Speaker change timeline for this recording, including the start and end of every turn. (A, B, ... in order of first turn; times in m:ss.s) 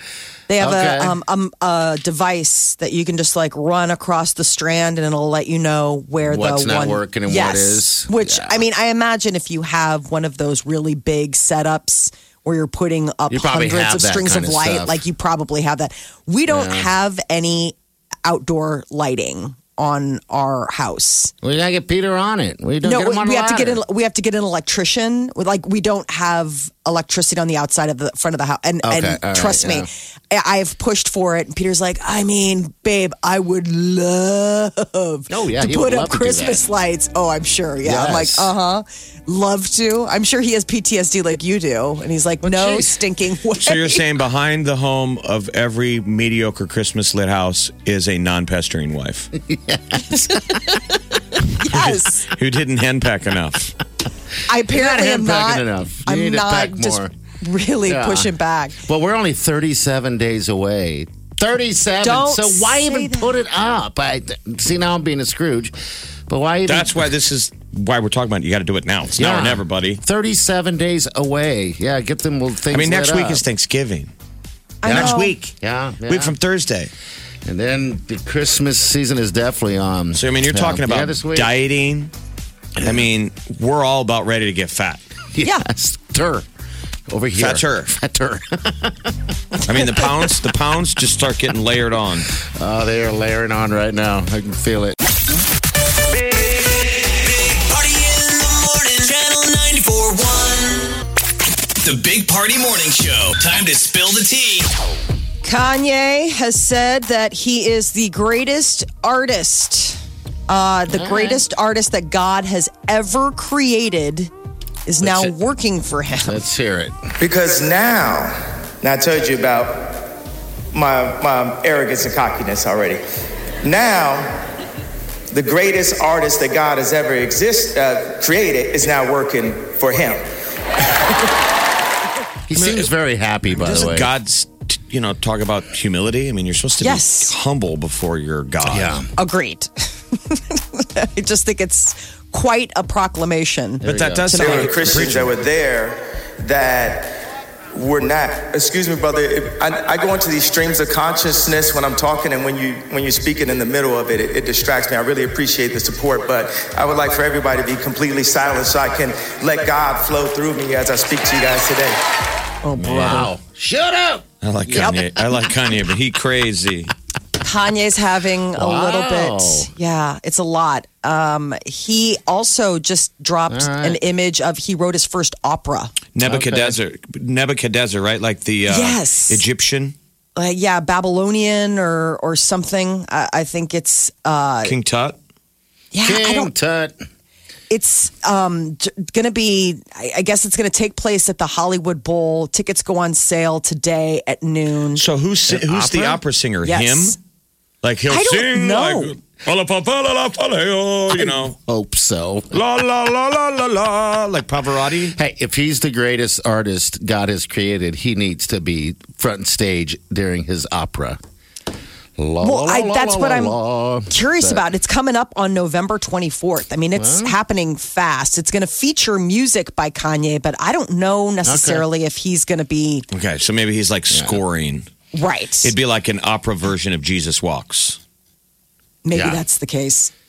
0:00.5-0:21.3 A
0:00.6-0:01.2 B
0:06.2-0:08.6 B
0:13.3-0:15.0 B
0:16.5-0:16.9 B
0:21.4-0:23.8 B
0:22.8-0:44.0 A
0:28.8-0:29.9 B
0:35.3-0:36.6 B
0:37.8-0:38.5 B
0:42.4-0:42.9 B
0:43.6-0:49.3 C
0:49.3-0:50.5 B
0:50.3-0:52.3 A
0:51.7-0:53.8 C
0:54.5-0:58.8 A
0:54.7-0:57.1 B
0:57.9-0:58.3 B
0:58.8-1:05.7 B
1:02.0-1:03.4 A
1:06.3-1:07.1 B
1:06.7-1:10.0 C
1:09.2-1:13.4 B
1:12.7-1:14.1 C
1:14.8-1:15.4 A
1:14.8-1:16.4 B
1:14.9-1:16.9 C
1:17.4-1:21.5 B
1:20.1-1:22.1 C
1:22.8-1:25.0 C
1:25.3-1:26.5 B
1:27.1-1:29.2 B
1:27.3-1:28.0 C
1:29.6-1:32.3 C
1:32.4-1:35.0 B
1:37.0-1:40.9 D
1:41.8-1:44.7 D
1:45.4-1:54.3 A
1:50.9-1:51.4 B
1:54.9-1:56.4 A
1:55.0-1:55.3 B
1:56.2-1:57.0 B
1:57.2-2:00.0 E
2:00.7-2:03.0 E
2:03.6-2:04.4 E
2:05.3-2:10.2 E
2:12.5-2:14.1 B
2:12.5-2:12.9 C
2:13.5-2:19.0 C
2:16.8-2:17.3 A
2:18.6-2:19.1 B
2:19.2-2:24.7 A
2:23.8-2:25.1 B
2:23.8-2:25.3 C
2:24.4-2:27.2 E
2:27.7-2:42.0 E
2:42.6-2:43.3 A
2:42.7-2:44.2 B
2:44.4-2:46.9 C
2:47.4-2:55.9 A
2:48.5-2:49.7 B
2:53.5-2:54.0 B
2:56.1-3:00.0 C
2:56.2-2:56.8 B
2:58.7-2:59.4 A
3:00.4-3:04.7 A
3:04.6-3:05.2 C
3:05.9-3:06.5 A
3:06.0-3:07.0 B
3:07.7-3:15.0 A
3:14.9-3:17.2 C
3:15.5-3:16.2 B
3:16.6-3:17.2 A
3:17.8-3:21.6 C
3:18.1-3:19.2 A
3:21.2-3:22.6 B
3:22.5-3:25.2 C
3:25.1-3:31.2 B
3:32.2-3:34.7 B
3:32.4-3:33.6 A
3:34.1-3:43.1 A
3:37.0-3:37.4 B
3:41.4-3:41.9 B
3:43.1-3:44.9 C
3:44.1-3:44.4 B
3:45.1-3:45.7 A
3:45.6-3:48.0 C
3:49.0-3:50.1 A
3:49.1-3:49.4 B